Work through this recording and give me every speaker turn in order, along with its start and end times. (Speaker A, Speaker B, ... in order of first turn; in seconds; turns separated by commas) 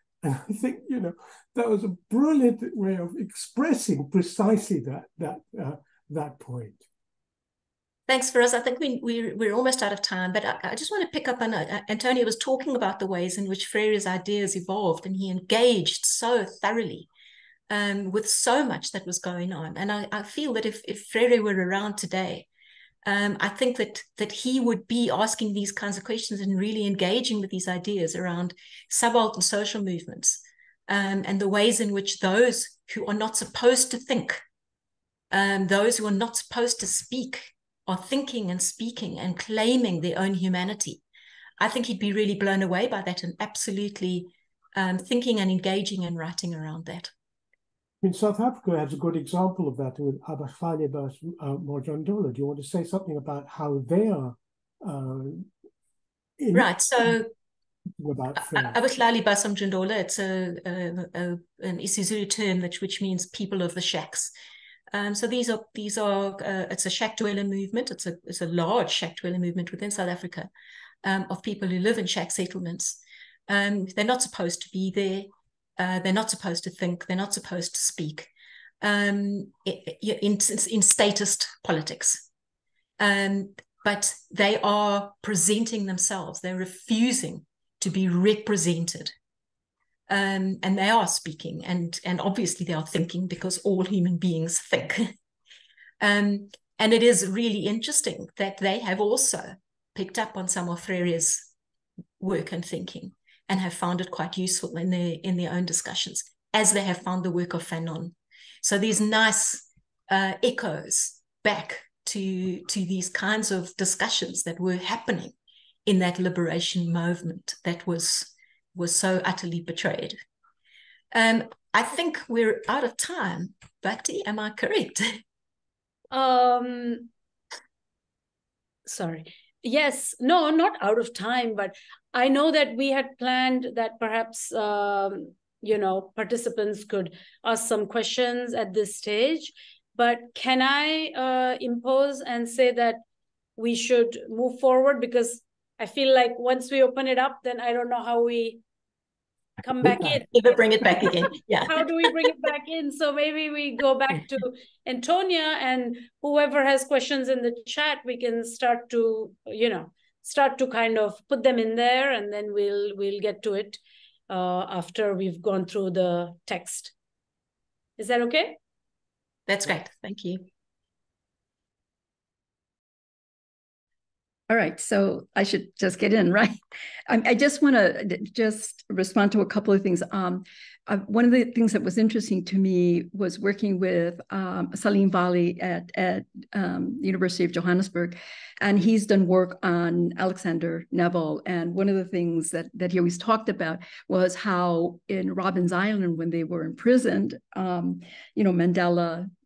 Speaker A: 0.2-6.8, Speaker B: 8.1-17.1, Speaker B: 17.7-22.5, Speaker B: 23.1-34.4, Speaker B: 35.3-41.0, Speaker B: 41.6-47.1, Speaker A: 48.0-55.5, Speaker A: 56.4-56.7, Speaker B: 56.5-57.3, Speaker A: 58.0-58.8, Speaker B: 58.4-64.3, Speaker B: 64.9-70.5, Speaker B: 71.0-78.3, Speaker B: 78.8-82.3, Speaker B: 83.0-89.1, Speaker B: 90.1-95.1, Speaker B: 96.0-101.5, Speaker B: 102.2-115.3, Speaker B: 115.9-120.2, Speaker B: 121.1-125.2, Speaker C: 126.1-127.1, Speaker C: 128.9-143.0, Speaker C: 143.6-148.6, Speaker C: 149.6-151.1, Speaker B: 150.3-152.2, Speaker C: 151.7-166.9, Speaker C: 168.0-168.6, Speaker B: 169.5-170.5, Speaker D: 174.5-199.3